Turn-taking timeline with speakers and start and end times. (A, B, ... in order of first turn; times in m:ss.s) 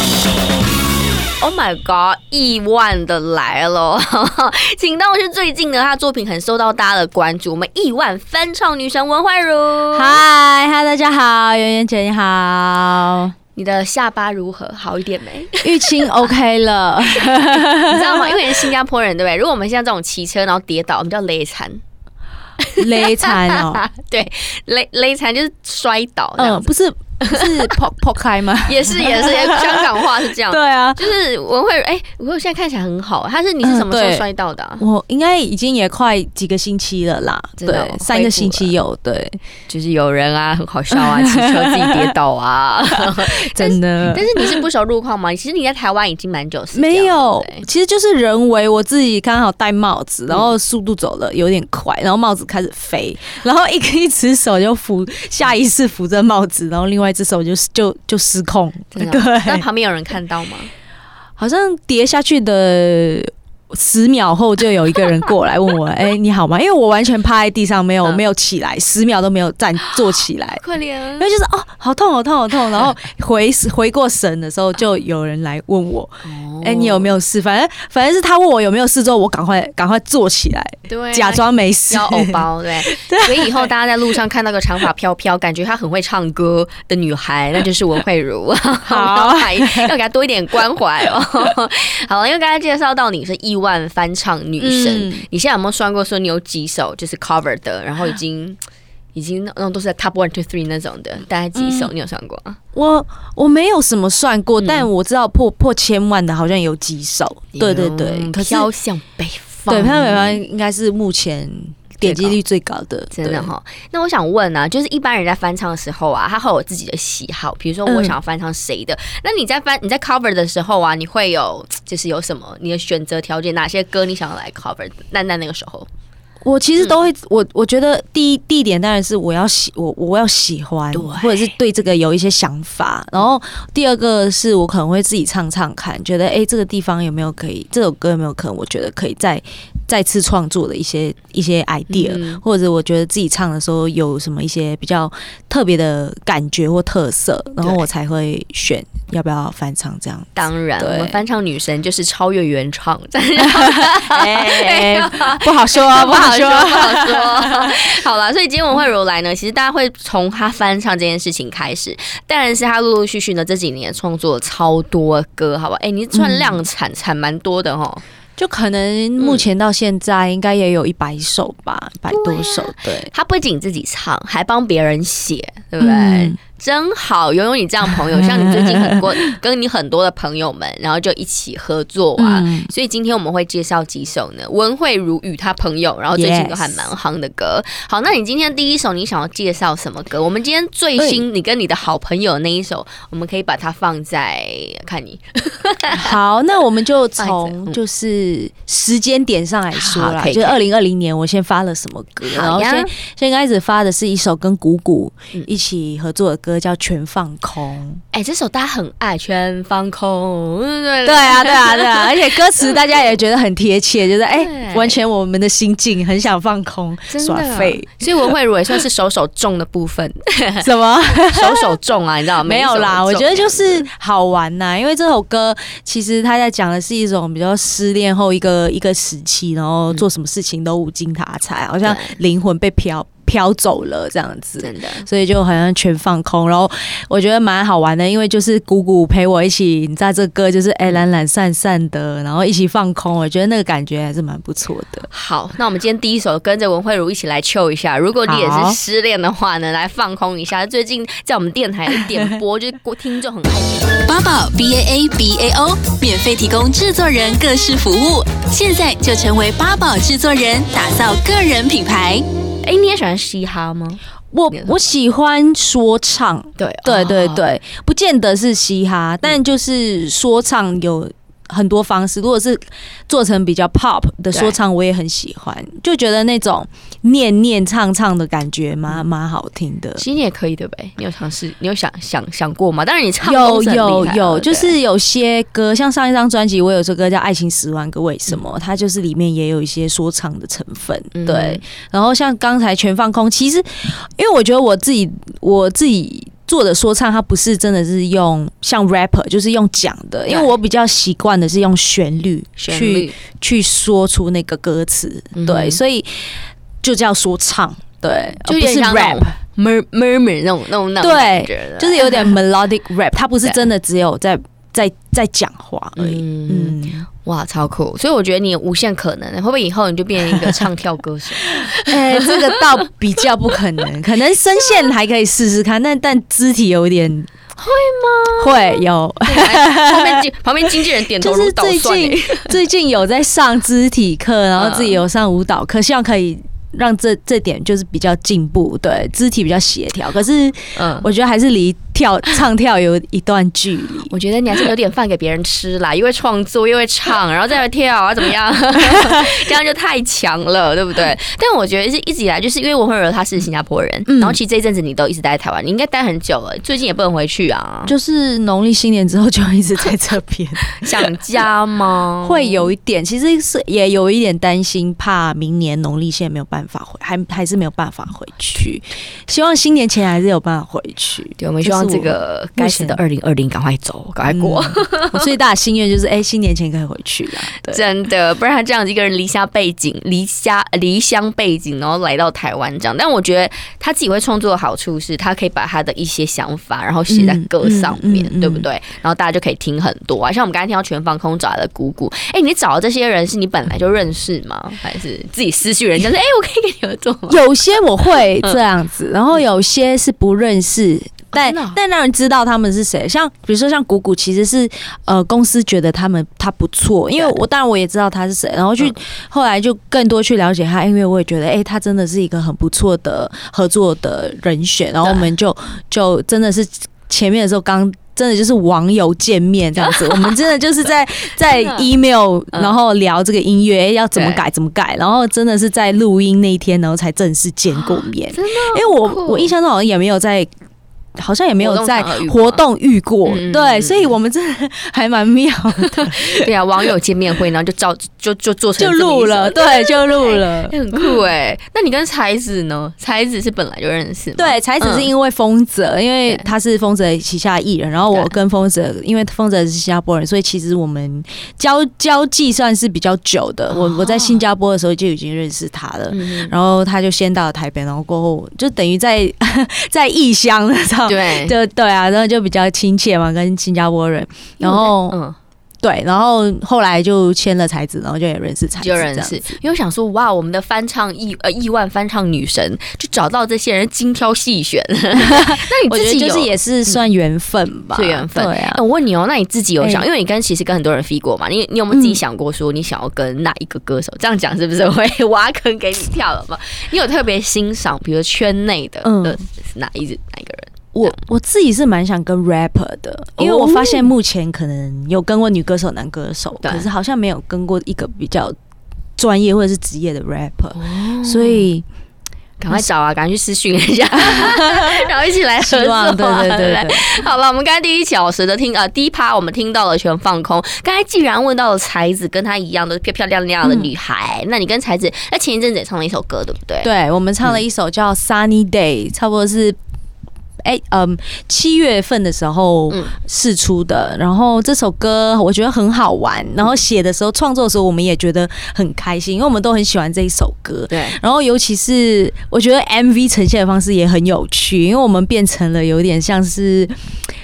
0:01.4-0:10.2 A
0:09.9-0:13.3 B
0:13.6-0:16.3 A
0:15.6-0:18.7 B
0:17.2-0:21.8 A
0:22.6-0:27.8 A
0:22.8-0:23.8 B
0:26.4-0:31.0 B
0:28.6-0:34.8 A
0:33.6-0:34.3 B
0:34.8-0:39.4 B
0:37.6-0:38.8 A
0:39.7-0:47.6 A
0:40.9-0:42.1 B
0:43.0-0:44.6 B
0:46.7-0:59.7 B
0:50.3-0:50.5 A
0:58.9-1:00.7 A
1:01.4-1:10.6 B
1:09.8-1:11.3 A
1:11.2-1:23.7 B
1:16.2-1:17.2 A
1:20.9-1:38.6 A
1:28.9-1:29.9 B
1:34.6-1:35.2 B
1:39.2-1:42.6 A
1:41.6-1:41.9 B
1:42.7-1:48.7 B
1:44.6-1:44.9 A
1:47.5-1:50.4 A
1:49.7-1:53.5 B
1:52.0-1:52.4 A
1:53.1-2:05.9 A
1:57.8-1:58.2 B
2:06.4-2:31.2 B
2:10.9-2:11.5 A
2:21.9-2:22.4 A
2:30.4-2:48.0 A
2:33.4-2:37.8 B
2:46.1-2:46.6 B
2:48.4-2:53.1 B
2:49.2-2:49.4 A
2:52.1-3:16.1 A
2:55.8-2:56.4 B
2:57.8-2:59.2 B
3:02.2-3:02.7 B
3:06.1-3:06.9 B
3:11.0-3:11.2 B
3:15.9-3:28.0 B
3:17.2-3:17.8 A
3:19.7-3:20.6 A
3:22.2-3:22.9 A
3:28.1-3:33.0 A
3:31.0-3:38.3 B
3:34.3-3:35.0 A
3:37.1-3:43.9 A
3:40.6-3:41.8 B
3:42.4-4:05.1 B
3:51.8-3:52.2 A
3:54.6-3:55.1 A
4:05.1-4:14.0 A
4:08.3-4:08.8 B
4:14.0-4:22.2 C
4:22.6-4:24.8 A
4:24.3-4:40.0 B
4:26.6-4:27.4 A
4:34.3-4:34.6 A
4:40.0-4:44.8 A
4:43.2-5:09.3 B
4:51.2-4:51.6 A
5:02.6-5:03.2 A
5:05.4-5:05.8 A
5:08.4-5:12.4 A
5:11.0-5:17.1 B
5:16.0-5:22.6 A
5:21.5-5:27.3 B
5:27.6-5:32.6 A
5:28.4-5:30.3 B
5:31.2-5:44.1 B
5:34.6-5:35.0 A
5:40.8-5:41.1 A
5:44.1-5:57.9 A
5:54.1-5:54.4 B
5:57.9-6:01.1 B
6:00.7-6:02.7 A
6:02.2-6:13.0 B
6:11.4-6:15.3 A
6:14.3-6:17.8 B
6:17.5-6:37.4 A
6:27.1-6:28.7 B
6:37.3-7:10.5 B
6:38.1-6:38.6 A
6:41.3-6:41.8 A
6:55.0-6:55.3 A
6:59.8-7:00.3 A
7:01.4-7:01.9 A
7:04.2-7:04.4 A
7:07.7-7:09.5 A
7:11.2-7:16.5 B
7:11.6-7:12.6 A
7:13.2-7:14.2 A
7:15.9-7:25.1 A
7:18.8-7:20.8 B
7:24.4-7:45.2 B
7:28.1-7:28.4 A
7:33.7-7:34.4 A
7:36.1-7:36.6 A
7:41.1-7:41.6 A
7:44.6-7:45.4 A
7:45.8-7:49.5 B
7:48.8-7:57.0 A
7:55.2-7:58.8 B
7:57.9-8:11.2 A
7:59.8-8:00.1 B
8:01.9-8:02.2 B
8:09.0-8:09.4 B
8:10.9-8:18.6 B
8:13.4-8:14.1 A
8:16.6-8:16.9 A
8:19.2-8:21.8 B
8:20.8-8:21.7 A
8:22.6-8:36.9 A
8:24.1-8:27.1 B
8:33.6-8:33.9 B
8:36.8-8:39.8 B
8:40.6-8:57.0 B
8:50.9-8:51.2 A